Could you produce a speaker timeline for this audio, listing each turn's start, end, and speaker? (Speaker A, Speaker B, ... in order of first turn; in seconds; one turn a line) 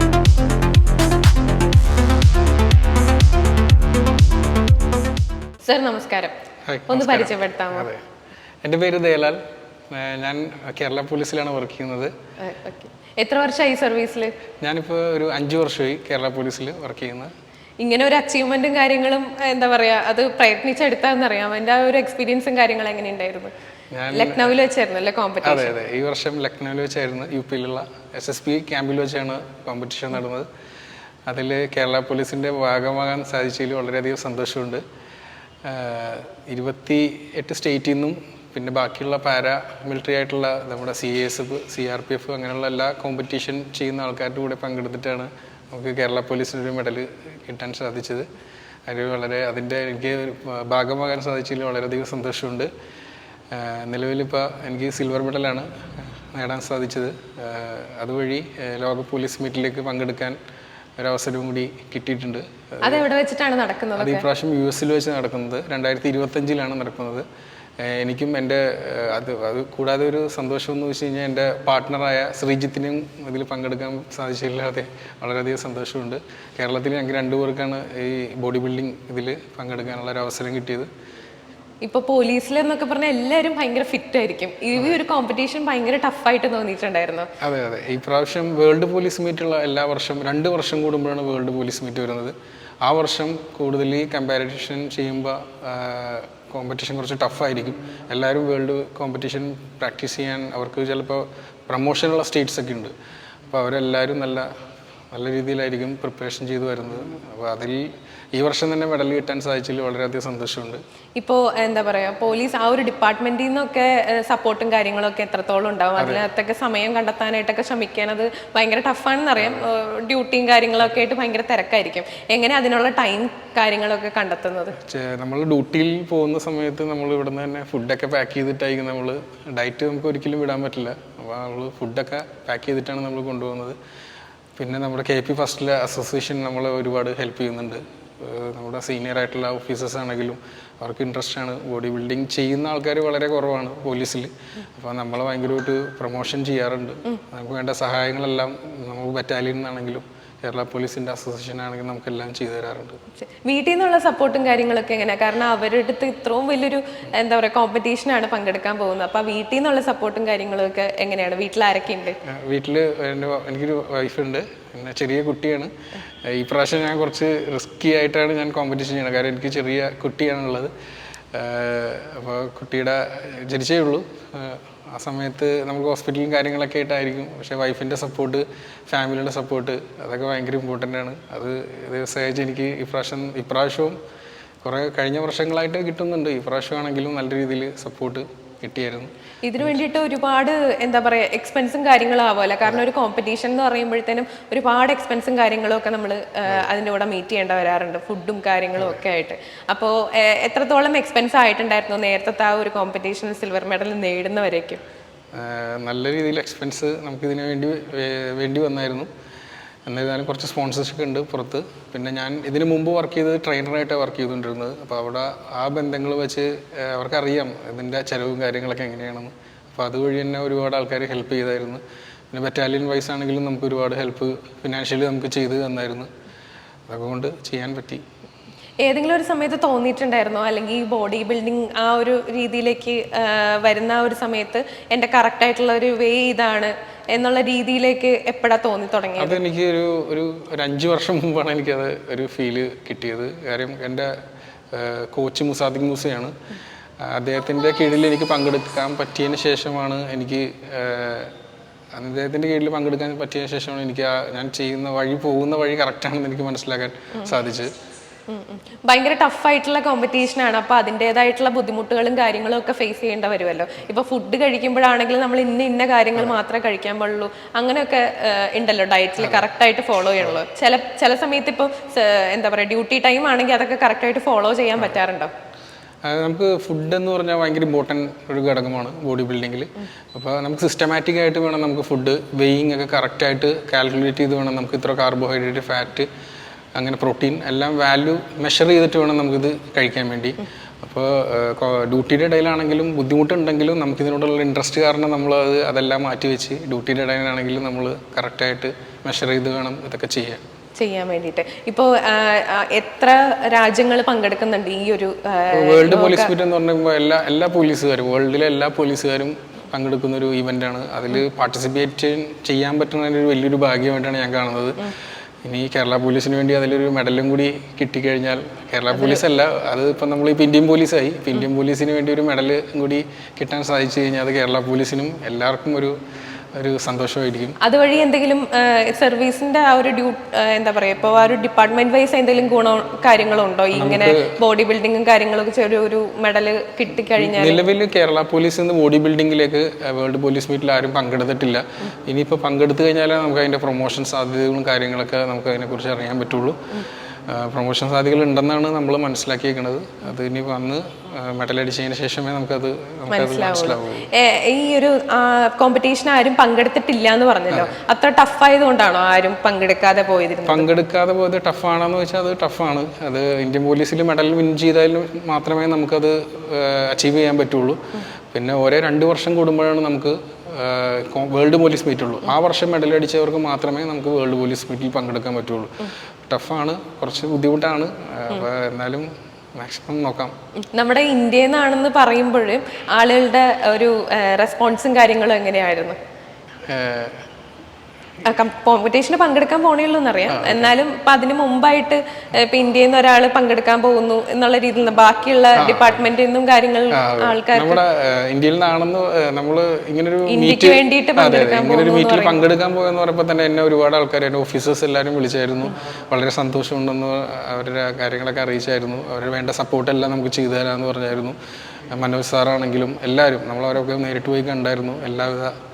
Speaker A: 5.6-6.3
Speaker B: 6.7-8.0
Speaker A: 6.9-7.9
Speaker B: 8.6-12.1
Speaker A: 12.4-14.3
Speaker B: 14.6-17.3
Speaker A: 17.8-23.5
Speaker B: 23.9-24.5
Speaker A: 24.1-25.7
Speaker B: 25.4-30.5
Speaker B: 31.3-34.8
Speaker B: 35.6-48.3
Speaker B: 48.9-52.7
Speaker B: 53.5-60.4
Speaker B: 61.0-63.0
Speaker A: 62.8-64.2
Speaker B: 64.0-67.2
Speaker B: 67.8-80.9
Speaker A: 81.8-87.3
Speaker B: 87.4-102.9
Speaker B: 103.5-104.5
Speaker B: 105.1-110.8
Speaker A: 111.2-124.8
Speaker B: 116.0-116.2
Speaker B: 124.8-133.8
Speaker B: 134.6-153.0
Speaker A: 153.2-162.2
Speaker B: 162.2-165.7
Speaker B: 166.2-170.7
Speaker B: 171.3-184.0
Speaker B: 184.6-189.8
Speaker A: 189.4-204.8
Speaker B: 205.3-209.1
Speaker B: 209.9-226.1
Speaker B: 226.9-228.0
Speaker A: 228.8-239.4
Speaker B: 239.2-244.2
Speaker B: 244.7-246.3
Speaker B: 247.0-251.3
Speaker B: 251.9-257.7
Speaker A: 258.3-275.3
Speaker B: 269.2-269.5
Speaker B: 276.0-286.1
Speaker B: 286.7-300.4
Speaker A: 300.8-306.3
Speaker B: 305.5-325.9
Speaker A: 318.9-319.2
Speaker B: 326.6-327.6
Speaker A: 327.6-337.6
Speaker B: 333.7-334.4
Speaker B: 337.1-354.1
Speaker A: 353.1-360.7
Speaker B: 360.4-380.3
Speaker A: 380.7-386.0
Speaker B: 386.7-387.3
Speaker A: 388.2-397.8
Speaker B: 390.3-390.7
Speaker B: 395.6-396.0
Speaker B: 396.9-411.4
Speaker A: 400.3-402.4
Speaker B: 411.9-415.5